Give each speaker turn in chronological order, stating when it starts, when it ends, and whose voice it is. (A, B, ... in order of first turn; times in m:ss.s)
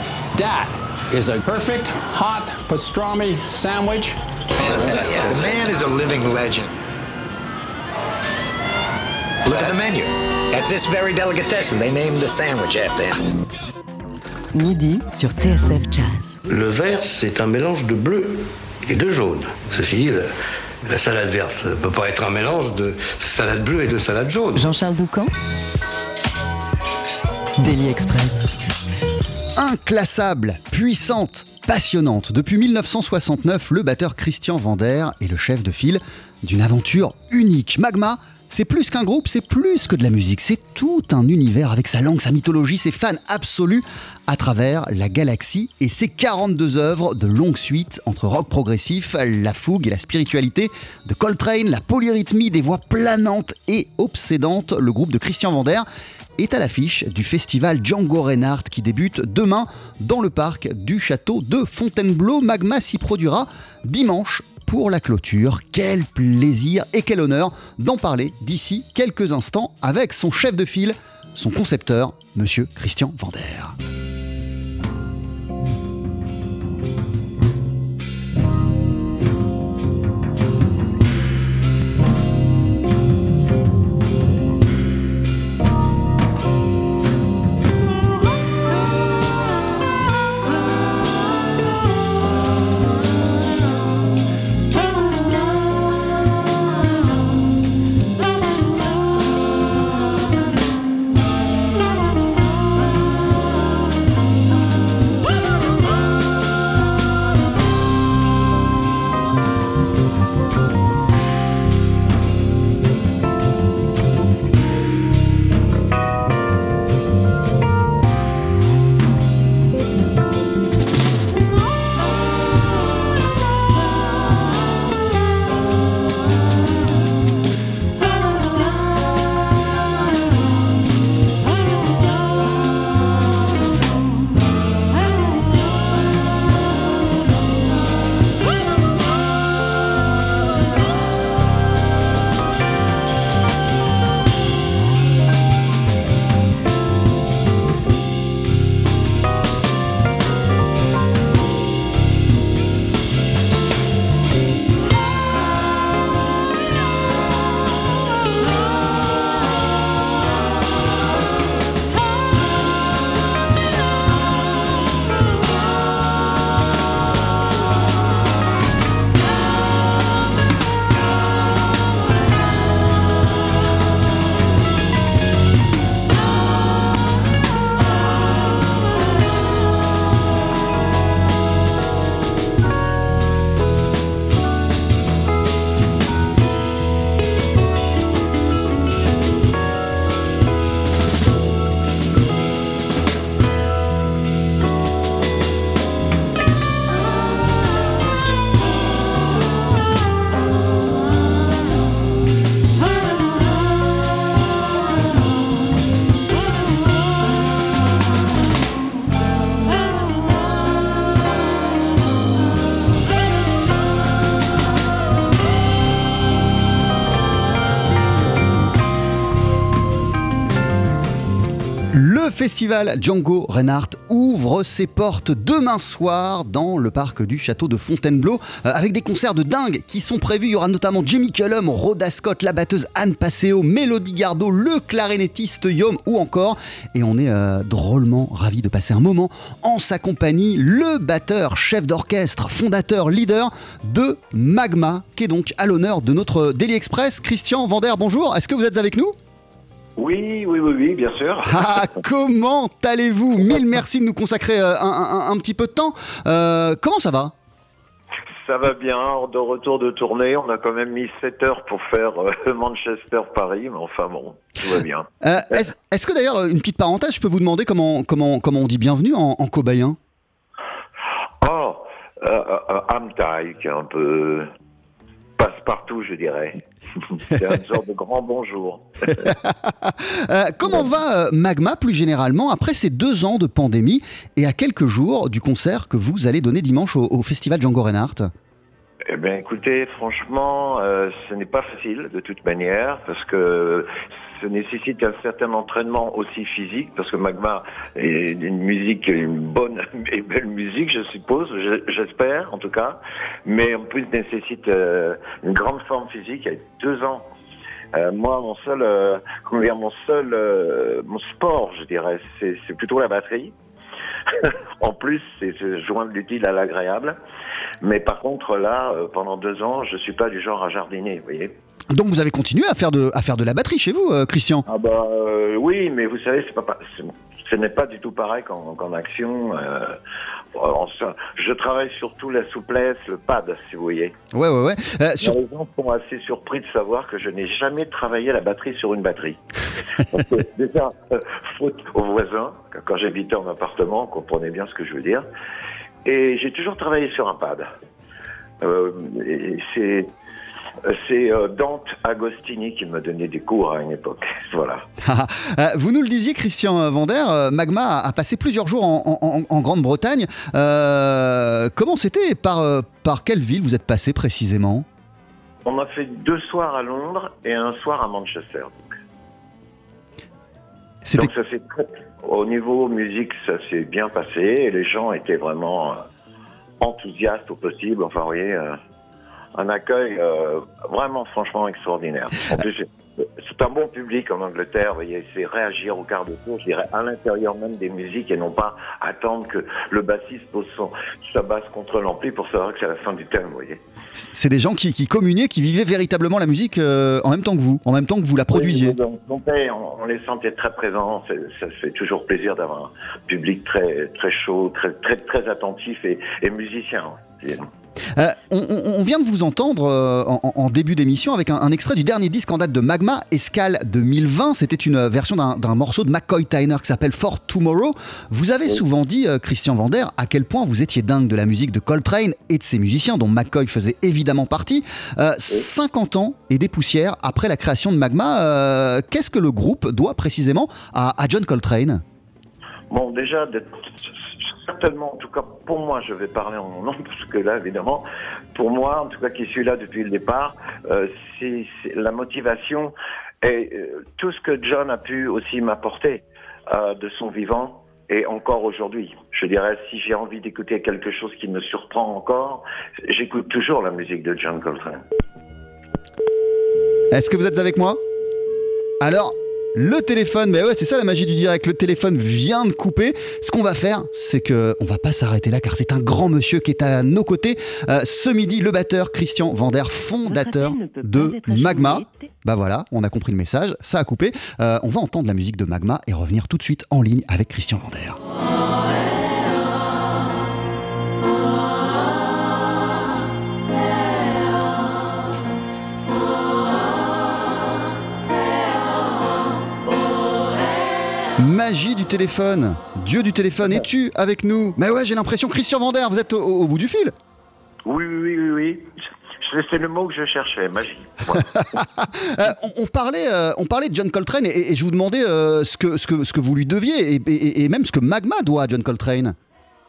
0:00.4-0:05.6 A
0:04.6-0:06.7 B
0:09.4-0:13.2 B
0:14.5-0:16.4 C
0:16.5-0:20.3 D
0:20.8-0:24.7 D
0:24.6-0:25.3 C
0:27.6-0:28.5 C
0:29.6-0:55.9 E
0:56.4-1:13.8 E
3:41.9-4:09.2 E
4:10.0-4:12.0 F
4:11.4-4:17.4 E
4:18.4-4:25.6 F
4:25.2-4:30.0 E
4:31.4-4:34.5 F
4:35.4-4:39.3 F
4:39.2-4:48.3 E
4:49.1-5:07.3 F
5:07.9-5:13.5 F
5:14.4-5:17.2 F
5:17.8-5:21.6 F
5:21.9-5:24.7 E
5:24.7-5:30.0 F
5:30.5-5:34.2 F
5:34.3-5:35.4 E
5:35.2-5:39.4 F
5:40.1-5:45.3 F
5:46.0-5:47.7 F
5:48.6-5:50.1 F
5:50.8-5:54.9 F
5:55.0-6:04.9 E
6:05.6-6:08.8 F
6:11.0-6:11.3 E
6:11.2-6:16.0 F
6:16.8-6:18.8 F
6:19.6-6:33.8 F
6:34.2-6:39.0 E
6:38.5-6:47.7 F
6:48.1-7:12.0 E
7:12.9-7:35.0 F
7:37.1-7:38.0 E
7:39.0-7:58.2 E
8:11.4-8:17.2 E
8:17.9-8:21.7 F
8:21.6-8:29.4 E